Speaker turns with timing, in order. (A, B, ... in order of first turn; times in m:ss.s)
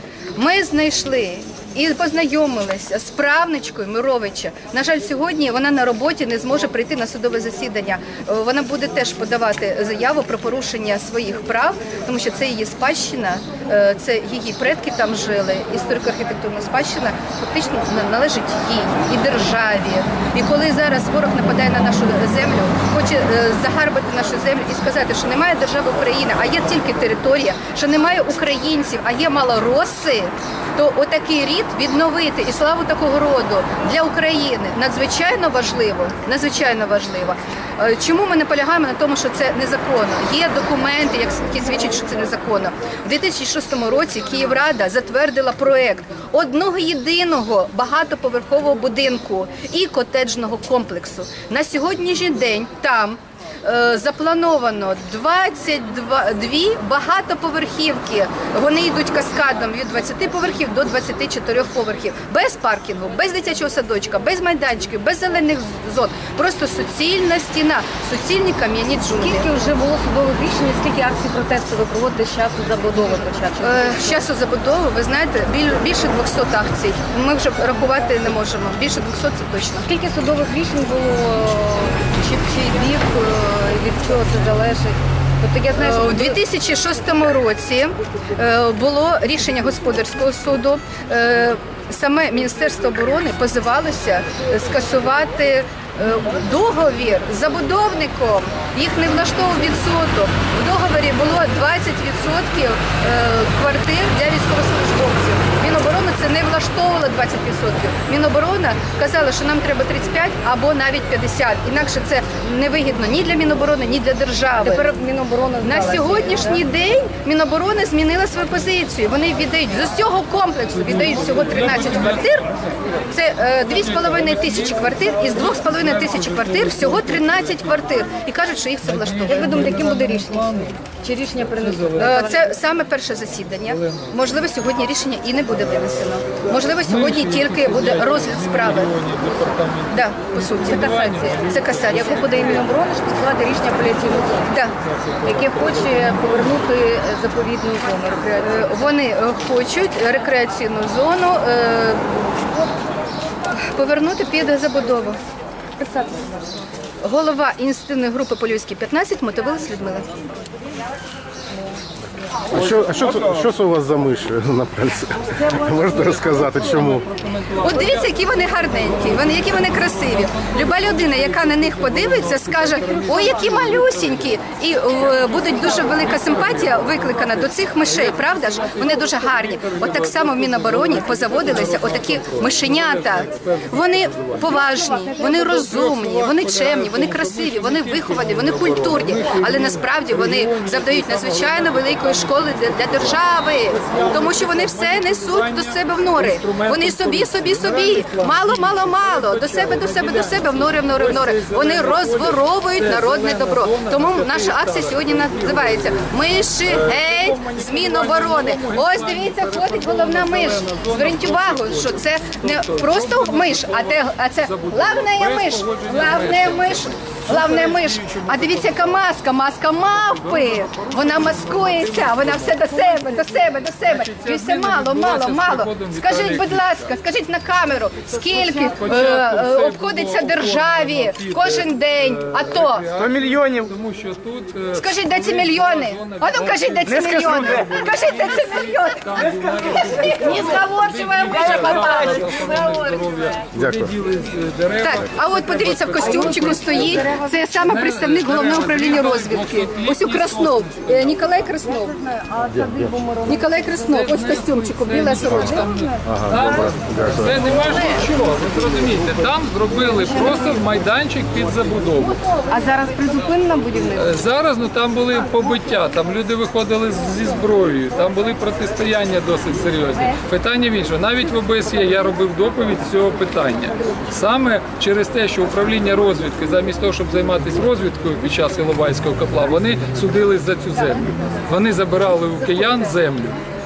0:00.4-1:09.5 A
1:09.2-1:14.2 B
1:13.6-1:19.9 A
1:19.8-1:26.4 B
1:25.8-1:55.0 A
1:54.6-1:56.6 B
1:55.6-2:02.5 A
2:01.0-2:02.2 C
2:03.1-2:09.9 A
2:03.7-2:07.8 C
2:08.9-2:10.8 C
2:09.3-2:12.4 B
2:11.4-2:12.2 C
2:12.0-2:18.9 A
2:13.8-2:14.1 C
2:16.8-2:22.6 C
2:19.9-2:22.6 A
2:20.7-2:24.5 B
2:24.5-2:24.7 A
2:24.8-2:26.3 C
2:25.2-2:28.7 B
2:28.4-2:32.1 A
2:33.5-2:35.2 A
2:35.8-2:36.3 B
2:37.0-2:40.1 A
2:42.5-2:47.1 D
2:46.7-2:48.0 C
2:47.6-3:52.9 A
2:50.2-2:54.2 C
2:55.6-2:57.2 C
2:58.0-3:13.2 C
3:13.7-3:39.0 C
3:40.0-3:46.9 C
3:48.4-4:11.1 C
3:54.7-4:02.3 A
4:00.2-4:03.0 B
4:03.5-4:04.0 D
4:04.8-4:12.1 A
4:06.2-4:07.3 B
4:11.8-4:14.0 B
4:12.4-4:13.0 D
4:13.3-4:15.7 A
4:13.8-4:22.2 C
4:15.7-4:15.9 B
4:16.0-4:17.6 D
4:22.2-4:24.2 B
4:23.9-4:43.4 C